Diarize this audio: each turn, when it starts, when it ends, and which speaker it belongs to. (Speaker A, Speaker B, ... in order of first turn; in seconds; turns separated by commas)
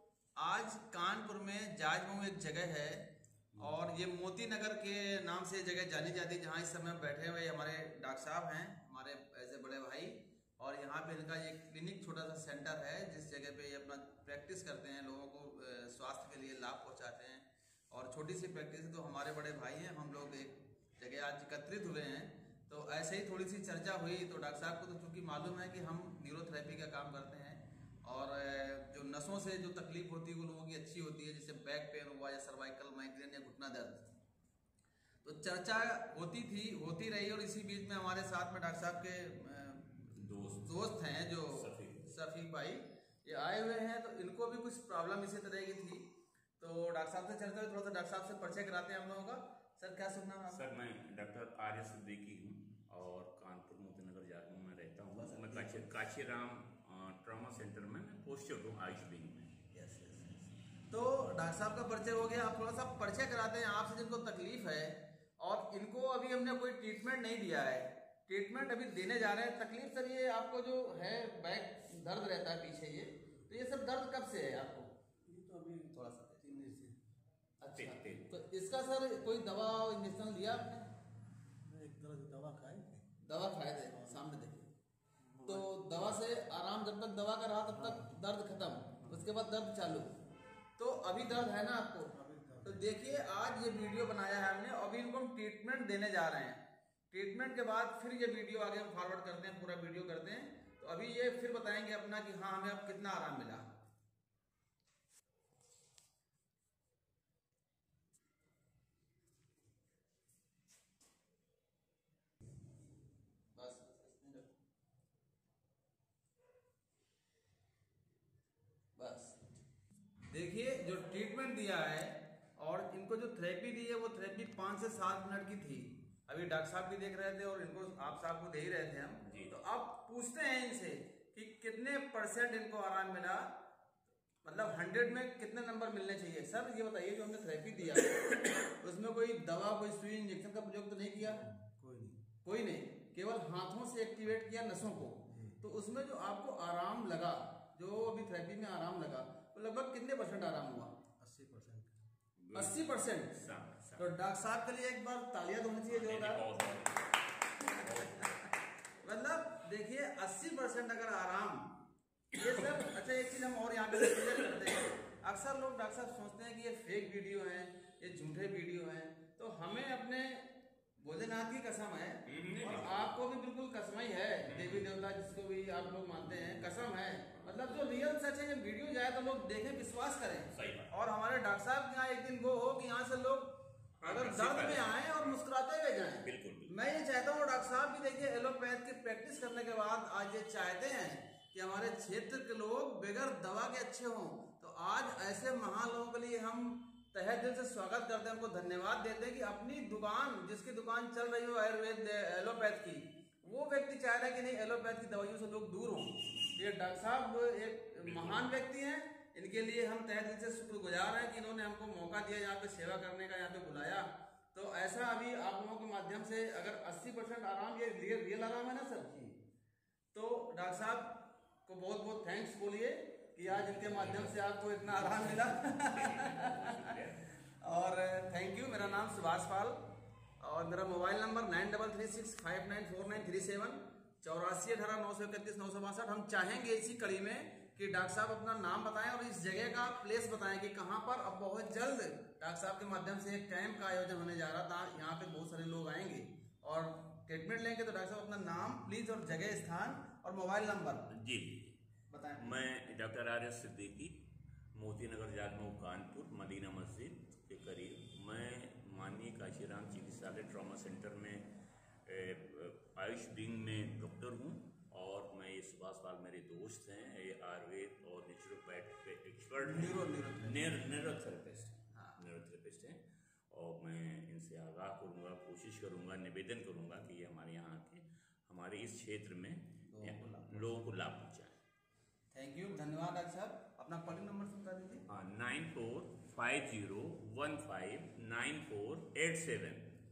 Speaker A: 0.3-34.2, Speaker A: 35.2-50.6, Speaker B: 40.2-40.9, Speaker B: 41.4-42.1, Speaker B: 50.5-59.5, Speaker A: 55.1-55.9, Speaker A: 59.7-74.9, Speaker C: 75.2-76.9, Speaker A: 75.9-76.5, Speaker A: 77.6-80.9, Speaker B: 77.7-78.3, Speaker C: 81.6-83.0, Speaker A: 83.2-84.7, Speaker C: 85.3-86.0, Speaker A: 85.4-90.1, Speaker C: 87.8-88.0, Speaker A: 90.8-103.7, Speaker C: 92.1-92.8, Speaker A: 113.5-114.5, Speaker A: 119.0-119.5, Speaker A: 120.3-133.5, Speaker B: 129.2-129.5, Speaker A: 134.4-141.4, Speaker C: 141.2-142.2, Speaker A: 142.4-150.9, Speaker C: 145.3-145.6, Speaker C: 151.2-151.9, Speaker B: 152.4-154.1, Speaker A: 152.5-153.4, Speaker A: 154.0-156.6, Speaker B: 155.9-158.5, Speaker A: 157.8-158.3, Speaker A: 159.0-161.7, Speaker A: 162.3-219.4, Speaker B: 162.3-162.9, Speaker B: 163.9-164.8, Speaker B: 172.2-173.0, Speaker B: 174.4-174.9, Speaker B: 180.5-180.9, Speaker B: 184.0-185.3, Speaker B: 186.2-186.7, Speaker B: 208.0-208.4, Speaker A: 220.1-229.9, Speaker B: 223.5-227.3, Speaker A: 230.4-251.1, Speaker B: 251.1-251.8, Speaker A: 252.1-252.6, Speaker B: 252.4-254.2, Speaker B: 254.7-261.5, Speaker B: 262.1-281.6, Speaker A: 269.6-270.7, Speaker A: 271.9-272.2, Speaker A: 279.9-280.9, Speaker A: 282.3-285.0, Speaker B: 285.1-289.9